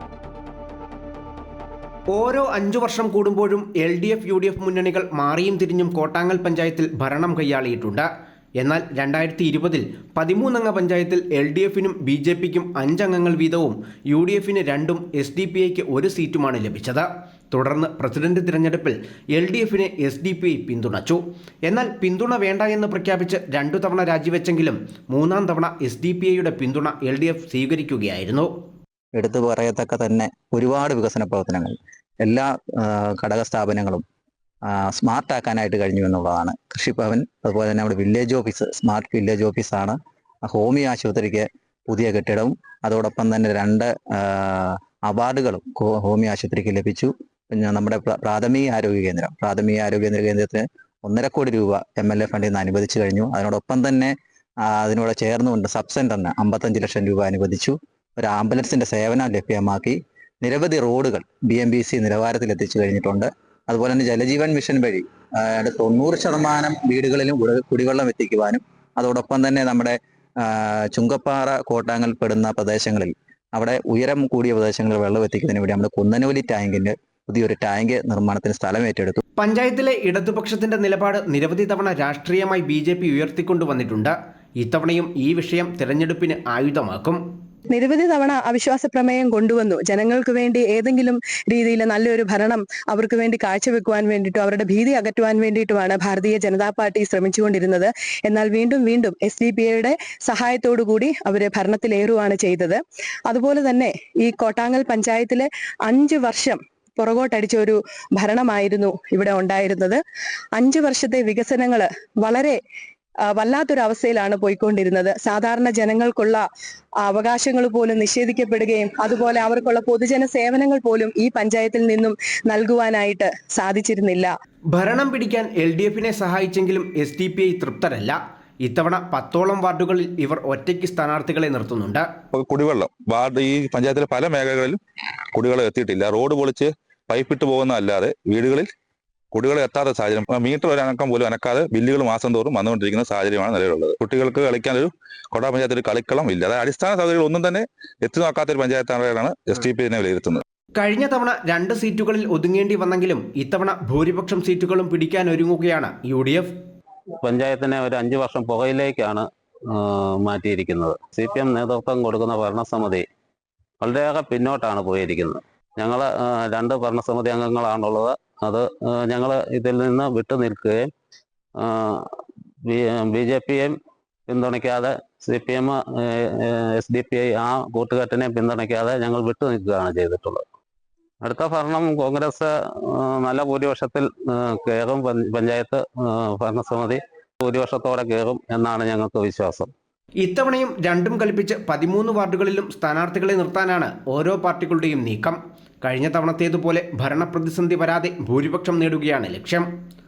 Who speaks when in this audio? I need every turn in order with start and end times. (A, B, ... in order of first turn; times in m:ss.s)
0:02.1-0:08.1 A
0:08.6-0:28.5 A
0:29.1-0:34.0 B
0:34.7-0:54.1 B
0:54.6-1:19.2 B
1:19.4-1:27.2 A
1:27.7-1:50.0 C
1:50.6-1:52.6 C
1:53.3-1:56.4 C
1:57.0-2:04.3 C
2:04.7-2:12.1 A
2:12.3-2:14.8 D
2:15.3-2:18.7 D
2:19.3-2:30.4 D
2:30.8-2:36.5 A
2:37.2-2:43.0 E
2:43.8-2:50.8 E
2:51.6-2:52.1 E
2:52.6-2:53.8 E
2:54.3-3:00.4 E
3:01.2-3:09.7 E
3:10.2-3:19.7 A